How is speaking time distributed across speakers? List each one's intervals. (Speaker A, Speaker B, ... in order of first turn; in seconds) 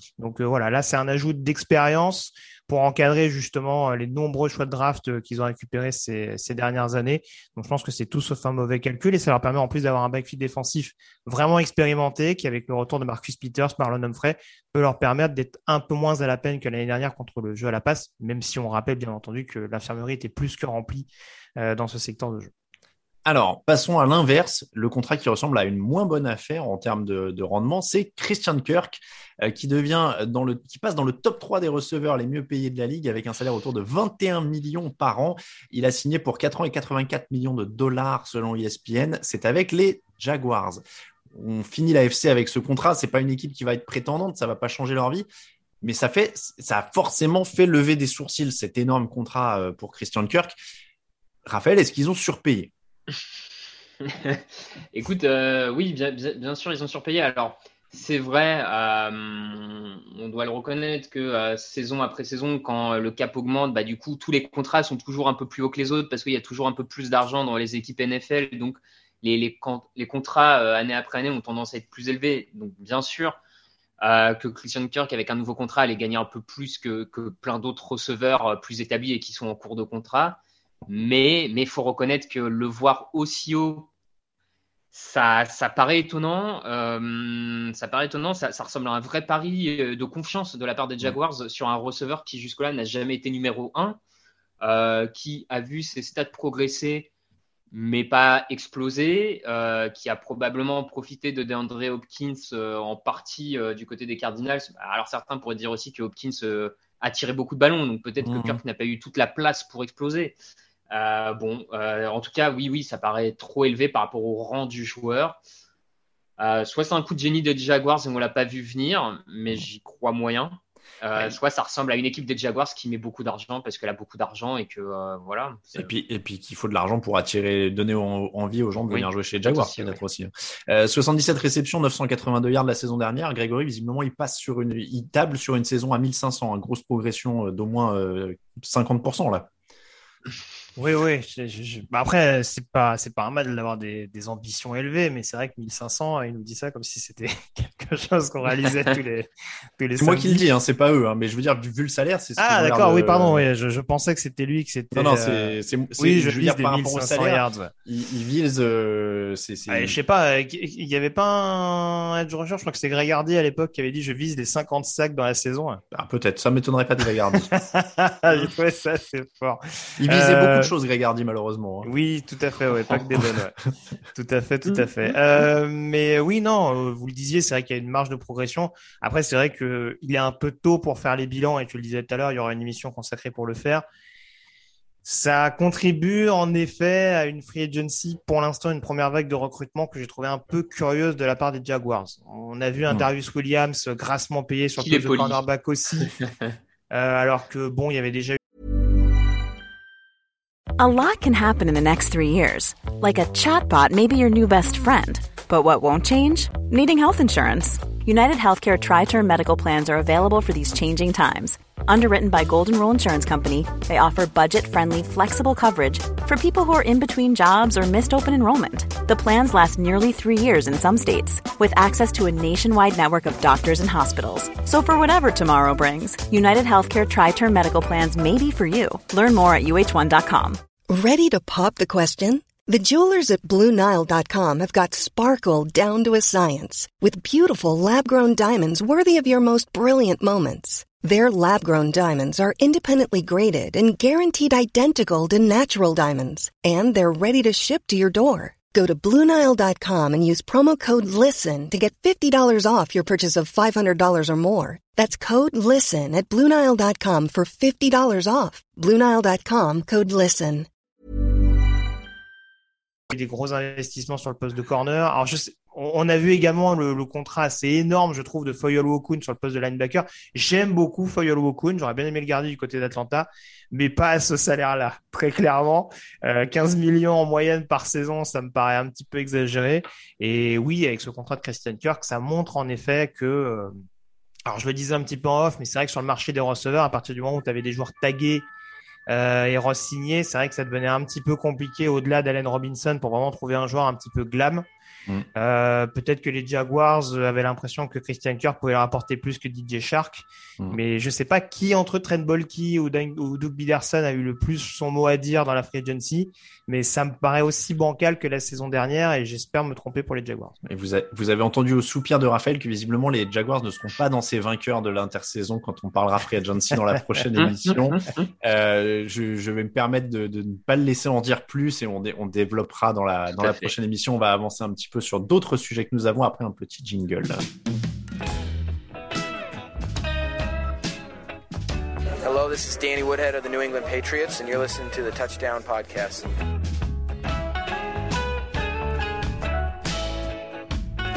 Speaker A: 0.2-22.5, 140.8-150.4, 152.4-157.7, 159.7-165.8, 167.5-170.7, 171.8-173.5, 174.1-183.8, 185.0-196.1, 196.9-198.4, 263.1-283.7, 284.4-288.4, 289.1-294.6, 295.4-310.6
Speaker B: 23.2-45.3, 45.8-50.6, 51.5-52.7, 108.2-108.6, 125.7-139.5, 150.0-153.5, 154.9-160.0, 165.9-167.5, 170.0-171.9, 310.6-327.4
Speaker C: 54.0-73.4, 74.0-83.9, 84.9-94.0, 94.6-97.1, 97.7-110.4, 110.9-115.4, 116.4-125.9, 128.9-130.0, 194.8-195.4, 317.4-318.3, 323.4-323.7
Speaker D: 200.8-230.6
Speaker E: 230.9-260.7
Speaker F: 332.2-336.3